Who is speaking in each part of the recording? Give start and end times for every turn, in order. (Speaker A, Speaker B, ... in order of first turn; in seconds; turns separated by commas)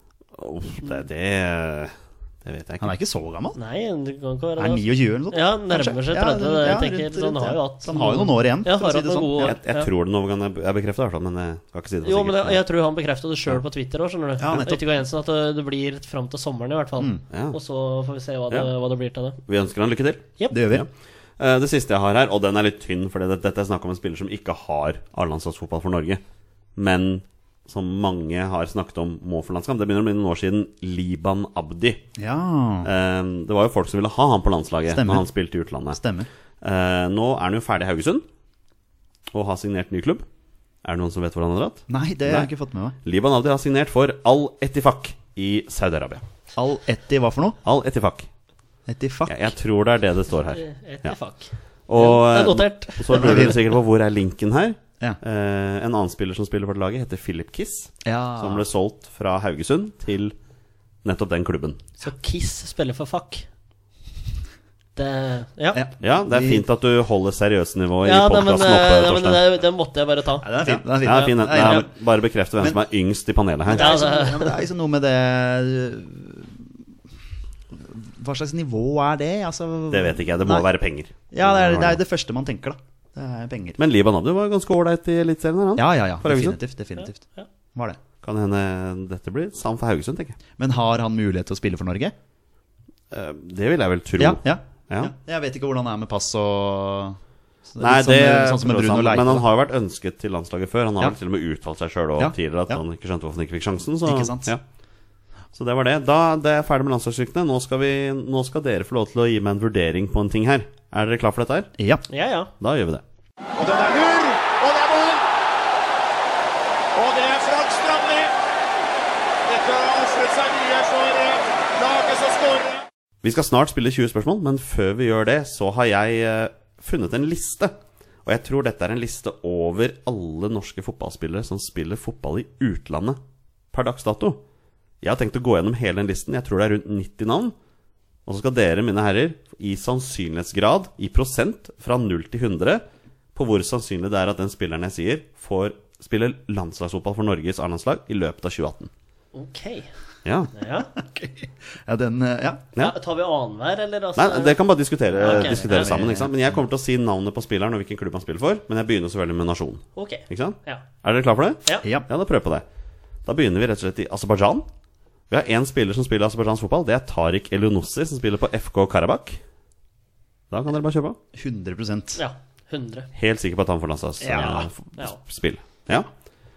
Speaker A: 0.3-2.9, Speaker B: 2.8-3.6, Speaker C: 3.5-9.9, Speaker B: 4.6-9.6, Speaker A: 9.4-12.6, Speaker C: 12.0-19.4, Speaker B: 14.4-14.8, Speaker B: 17.0-17.2, Speaker A: 17.3-17.6, Speaker A: 19.4-26.2, Speaker B: 20.5-20.9, Speaker A: 26.8-32.0, Speaker B: 32.1-32.9, Speaker A: 32.8-36.0, Speaker B: 34.9-35.3, Speaker B: 35.9-36.3, Speaker A: 36.6-38.2, Speaker A: 39.3-40.2, Speaker A: 40.8-42.5, Speaker B: 41.9-43.0, Speaker A: 43.0-46.2, Speaker B: 46.5-47.6, Speaker A: 47.6-48.3, Speaker B: 48.9-49.5, Speaker A: 49.3-51.2, Speaker C: 50.5-53.6, Speaker A: 51.9-60.3, Speaker B: 53.1-53.6, Speaker B: 58.0-58.6, Speaker A: 61.0-61.8, Speaker C: 62.0-63.4, Speaker C: 65.0-65.8, Speaker B: 65.7-66.6, Speaker A: 66.0-69.5, Speaker C: 68.0-71.8, Speaker B: 70.4-71.9, Speaker A: 71.0-73.9, Speaker B: 73.7-76.8, Speaker C: 73.7-74.6, Speaker B: 77.7-80.7, Speaker A: 79.9-82.0, Speaker B: 81.3-83.8, Speaker A: 83.8-86.6, Speaker B: 85.8-88.0, Speaker C: 87.0-87.5, Speaker A: 88.2-90.4, Speaker B: 90.6-92.1, Speaker A: 93.1-95.1, Speaker B: 94.2-99.5, Speaker A: 97.8-104.6, Speaker B: 102.2-102.8, Speaker B: 104.0-104.5, Speaker A: 105.5-111.7, Speaker B: 111.8-112.0, Speaker C: 112.1-112.5, Speaker A: 112.6-113.0, Speaker D: 113.5-115.2, Speaker D: 116.9-118.3, Speaker D: 119.5-122.8, Speaker A: 123.2-133.2, Speaker A: 133.7-134.4, Speaker A: 135.0-137.5, Speaker A: 138.2-142.8, Speaker A: 143.3-148.9, Speaker C: 149.3-149.9, Speaker A: 150.2-150.5, Speaker C: 150.5-150.9, Speaker B: 150.9-152.7, Speaker C: 152.8-154.6, Speaker A: 154.2-162.6, Speaker B: 155.1-156.5, Speaker C: 155.2-156.0, Speaker C: 159.9-160.8, Speaker B: 161.8-162.1, Speaker A: 163.2-164.7, Speaker A: 165.3-169.4, Speaker A: 170.5-171.2, Speaker B: 171.3-172.2, Speaker C: 172.2-173.1, Speaker A: 173.1-176.1, Speaker B: 174.2-174.7, Speaker C: 174.3-175.2